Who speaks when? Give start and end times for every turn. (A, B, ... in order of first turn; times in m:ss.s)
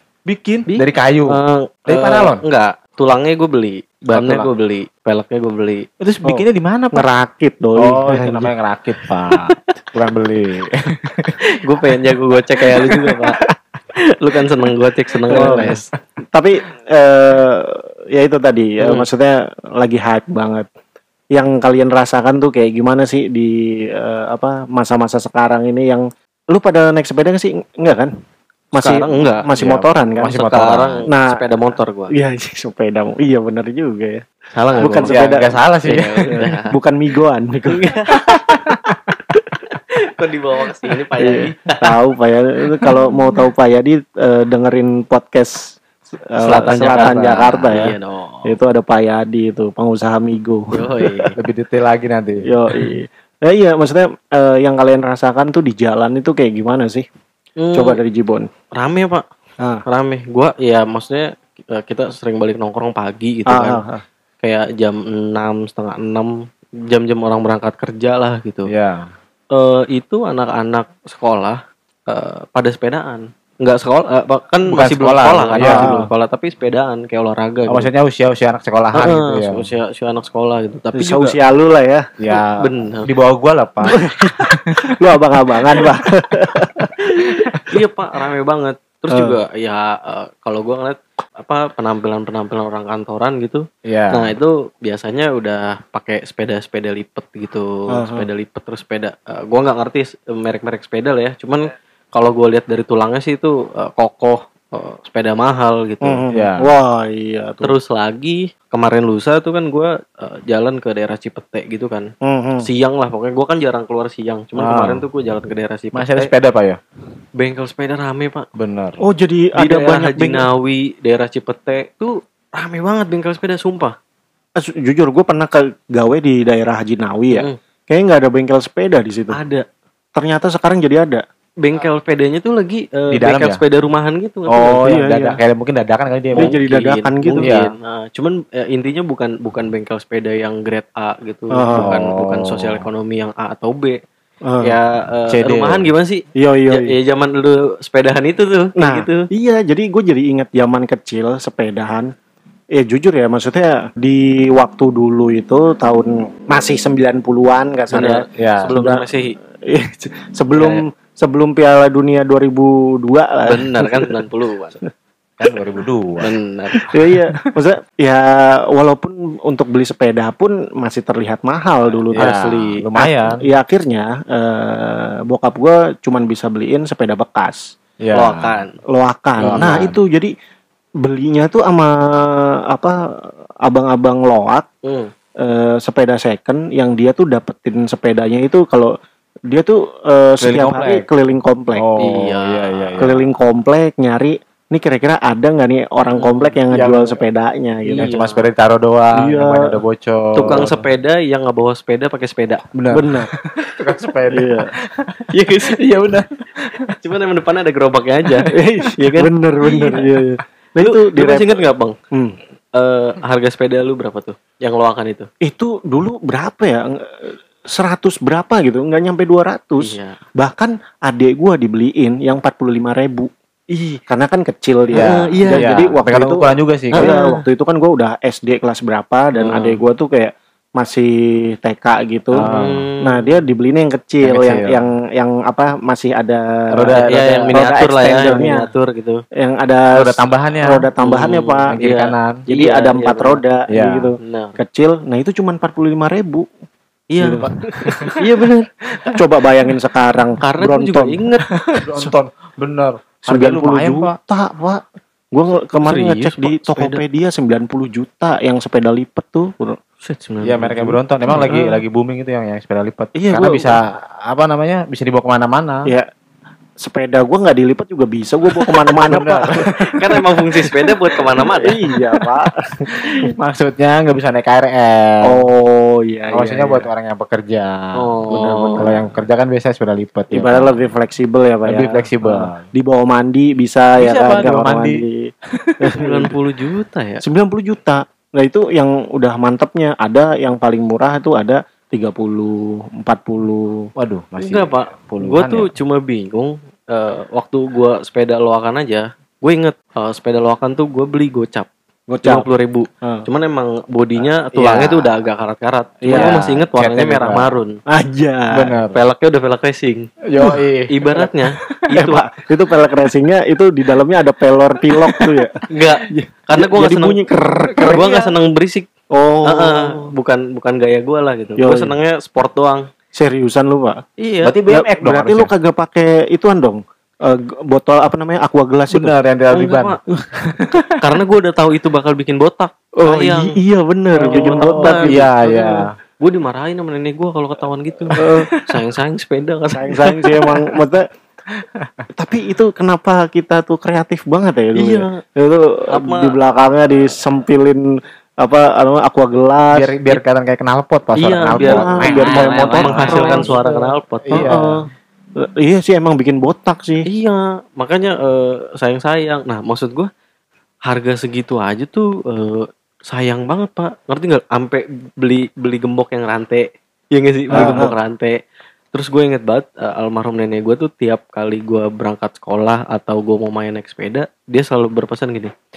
0:00.3-0:02.4 A
0:00.7-0:05.8 B
0:04.1-0:04.5 A
0:06.0-0:07.0 A
0:06.2-0:08.5 C
0:07.8-0:11.3 A
0:11.5-0:13.4 B
0:14.2-0:15.9 B
0:15.3-0:15.8 C
0:16.3-0:20.7 C
0:18.8-0:19.1 B
0:21.3-0:28.1 C
0:28.8-0:30.4 C
0:28.8-0:29.5 B
0:29.5-0:31.0 A
0:30.2-0:32.1 B
0:31.1-0:31.4 C
0:32.1-0:34.2 C
0:34.5-0:35.1 B
0:34.8-0:35.6 C
0:35.0-0:36.5 A
0:35.8-0:36.7 B
0:36.3-0:38.6 C
0:37.7-0:38.3 B
0:38.2-0:39.2 A
0:40.0-0:41.8 B
0:41.2-0:45.8 C
0:46.3-0:47.9 C
0:46.4-0:48.5 B
0:46.6-0:47.9 A
0:48.5-0:51.3 C
0:50.7-0:51.4 B
0:51.4-0:52.5 A
0:52.5-0:57.1 C
0:57.6-0:58.0 B
0:57.7-0:58.5 C
0:58.8-0:59.2 B
0:59.9-1:03.8 B
1:03.5-1:04.0 C
1:04.4-1:06.3 B
1:06.9-1:08.7 B
1:08.7-1:09.1 A
1:09.5-1:17.9 B
1:14.7-1:16.1 A
1:15.6-1:16.1 C
1:17.7-1:19.7 A
1:19.0-1:21.4 B
1:21.0-1:22.1 C
1:22.2-1:25.0 A
1:22.3-1:23.1 B
1:24.0-1:24.3 C
1:24.9-1:26.9 C
1:27.0-1:46.2 B
1:29.1-1:29.4 C
1:33.9-1:34.3 A
1:37.9-1:38.3 C
1:46.0-1:47.7 C
1:46.3-1:46.7 A
1:47.6-1:52.1 B
1:52.2-1:52.6 C
1:52.6-1:56.3 B
1:54.6-1:55.0 A
1:55.9-1:56.8 A
1:57.4-1:58.4 B
1:58.6-1:59.0 A
1:59.0-2:00.5 C
1:59.6-2:04.0 B
2:04.6-2:09.4 C
2:09.3-2:09.6 B
2:10.2-2:11.2 C
2:11.6-2:14.8 B
2:13.1-2:13.6 A
2:14.5-2:16.6 A
2:14.9-2:15.4 C
2:16.4-2:24.0 B
2:16.4-2:17.5 C
2:17.4-2:17.7 A
2:21.5-2:21.9 C
2:21.8-2:22.9 A
2:24.5-2:24.8 C
2:24.6-2:29.3 B
2:25.3-2:25.9 A
2:26.4-2:26.9 C
2:28.8-2:32.1 C
2:32.8-2:39.1 C
2:37.9-2:39.4 B
2:38.4-2:38.8 A
2:39.7-2:44.1 C
2:40.5-2:40.8 B
2:43.5-2:44.8 B
2:45.4-2:46.3 A
2:46.2-2:46.8 B
2:46.8-2:52.3 C
2:52.1-2:52.9 B
2:52.1-2:53.4 A
2:53.4-2:57.8 C
2:58.0-2:58.5 A
2:58.1-2:58.8 B
2:58.9-3:00.3 C
2:59.4-2:59.9 B
2:59.4-3:00.0 A
3:01.0-3:04.7 C
3:04.8-3:05.1 B
3:05.4-3:08.9 C
3:09.5-3:11.9 C
3:10.4-3:11.1 A
3:11.8-3:13.2 A
3:12.0-3:13.0 B
3:13.0-3:18.1 C
3:16.1-3:16.6 B
3:16.7-3:17.2 A
3:17.9-3:18.4 B
3:17.9-3:20.8 A
3:19.2-3:19.8 C
3:20.4-3:22.6 B
3:22.7-3:26.9 A
3:22.9-3:23.3 C
3:24.3-3:24.7 C
3:25.3-3:25.9 B
3:26.9-3:30.0 B
3:28.5-3:32.4 C
3:29.8-3:30.2 A
3:30.8-3:32.0 B
3:32.8-3:35.3 B
3:35.4-3:43.3 C
3:39.8-3:40.2 B
3:43.7-3:44.0 B
3:44.1-3:52.5 C
3:44.9-3:45.7 B
3:44.9-3:47.1 A
3:47.0-3:47.4 B
3:49.4-3:49.8 B
3:52.4-3:52.8 A
3:52.4-3:53.3 B
3:53.0-3:58.7 C
3:54.2-3:54.8 A
3:56.7-3:57.6 A
3:57.0-3:59.2 B
3:58.1-3:58.5 A
3:59.4-4:01.8 C
4:00.0-4:00.9 A
4:01.0-4:03.4 B
4:01.7-4:02.4 A
4:02.5-4:06.5 C
4:03.7-4:04.1 A
4:04.2-4:04.6 B
4:07.1-4:07.5 B
4:07.2-4:08.2 C
4:08.2-4:09.1 B
4:09.1-4:11.2 C
4:10.4-4:11.5 B
4:11.5-4:14.1 A
4:13.3-4:14.8 C
4:15.3-4:19.8 C
4:15.8-4:17.0 B
4:20.0-4:21.6 B
4:20.4-4:25.9 A
4:21.4-4:21.8 C
4:23.2-4:23.8 C
4:26.8-4:29.7 C
4:28.7-4:29.9 A
4:29.8-4:31.7 B
4:31.4-4:32.9 C
4:32.9-4:35.5 A
4:35.2-4:36.9 C
4:36.3-4:38.0 A
4:38.0-4:38.9 B
4:38.3-4:39.1 C
4:38.8-4:40.8 A
4:40.3-4:45.1 C
4:41.7-4:42.7 A
4:44.0-4:45.0 A
4:45.6-4:46.0 A
4:45.8-4:46.3 C
4:46.0-4:47.2 B
4:47.2-4:53.9 C
4:54.0-4:55.7 A
4:54.4-5:01.7 B
5:02.1-5:02.5 C
5:02.2-5:07.8 B
5:03.0-5:03.3 C
5:04.5-5:05.1 A
5:06.0-5:06.4 C
5:06.0-5:07.5 A
5:07.9-5:08.8 C
5:08.5-5:09.0 A
5:08.9-5:10.1 B
5:10.3-5:11.8 A
5:10.9-5:12.2 B
5:12.0-5:15.6 C
5:15.0-5:15.3 A
5:15.7-5:17.2 B
5:16.1-5:18.1 C
5:17.8-5:18.3 A
5:17.8-5:18.9 B
5:19.1-5:20.1 C
5:19.4-5:22.9 B
5:21.6-5:21.9 C
5:23.2-5:24.0 C
5:24.2-5:24.5 B
5:24.4-5:25.5 A
5:24.7-5:29.1 C
5:28.9-5:29.9 A
5:29.5-5:30.0 B
5:30.5-5:30.9 A
5:31.0-5:33.5 B
5:33.0-5:35.7 C
5:34.2-5:35.9 A
5:34.2-5:35.3 B
5:36.2-5:40.1 B
5:38.2-5:38.5 C
5:38.2-5:38.6 A
5:39.8-5:41.1 C
5:41.6-5:41.9 A
5:42.1-5:47.8 C
5:44.8-5:45.2 B
5:45.9-5:46.4 B
5:48.4-5:50.0 C
5:49.7-5:53.6 A
5:51.2-5:54.6 B
5:51.6-5:53.6 C
5:54.3-5:54.7 A
5:54.4-5:54.8 C
5:55.5-5:57.0 C
5:57.1-6:00.1 B
6:00.9-6:08.4 B
6:07.5-6:07.9 C
6:08.9-6:15.5 B